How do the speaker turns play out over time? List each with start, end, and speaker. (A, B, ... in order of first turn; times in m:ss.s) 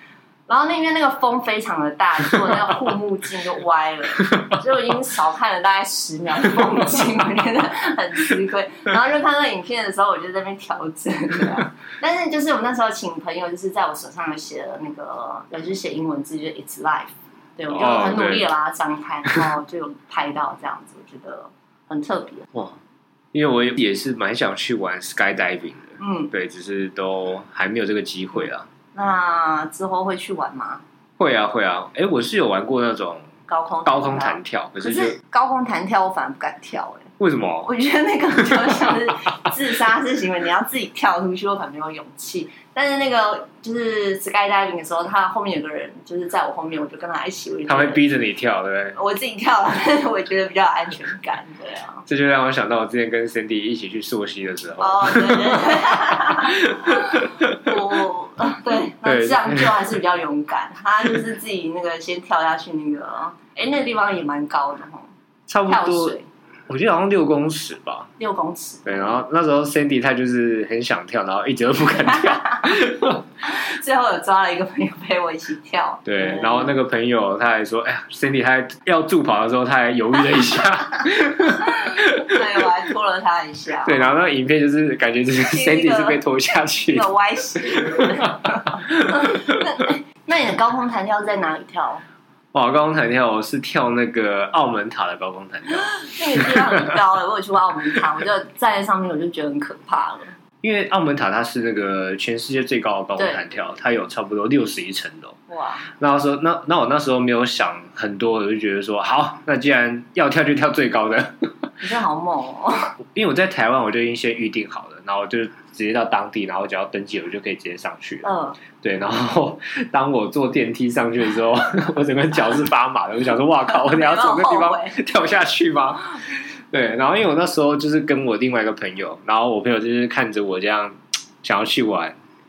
0:00.5-0:22.5 A
0:04.2-0:04.6 B
0:17.7-0:18.5 B
0:22.5-0:22.8 B
0:23.3-0:28.7 B
0:26.0-0:26.3 A
0:28.9-0:30.8 A
0:31.2-0:33.3 B
0:33.5-0:37.1 A
0:33.8-0:35.2 B
0:37.2-0:37.7 B
0:37.6-0:48.0 A
0:47.7-0:49.0 B
0:48.9-0:52.0 A
0:52.0-0:58.0 B
0:54.8-1:05.1 A
0:59.0-0:59.8 B
1:05.5-1:06.2 B
1:05.7-1:06.2 A
1:06.7-1:08.1 B
1:08.2-1:09.2 A
1:08.8-1:13.2 B
1:12.0-1:12.8 A
1:13.4-1:16.8 A
1:16.0-1:22.4 B
1:21.4-1:24.2 A
1:23.8-1:29.6 B
1:25.4-1:32.0 A
1:32.5-1:37.0 B
1:35.8-1:40.3 A
1:40.6-1:45.4 B
1:43.2-1:43.4 A
1:45.5-1:45.9 A
1:46.0-1:51.5 B
1:51.8-1:52.9 A
1:53.1-2:12.2 B
1:58.2-1:58.6 A
2:03.7-2:05.0 A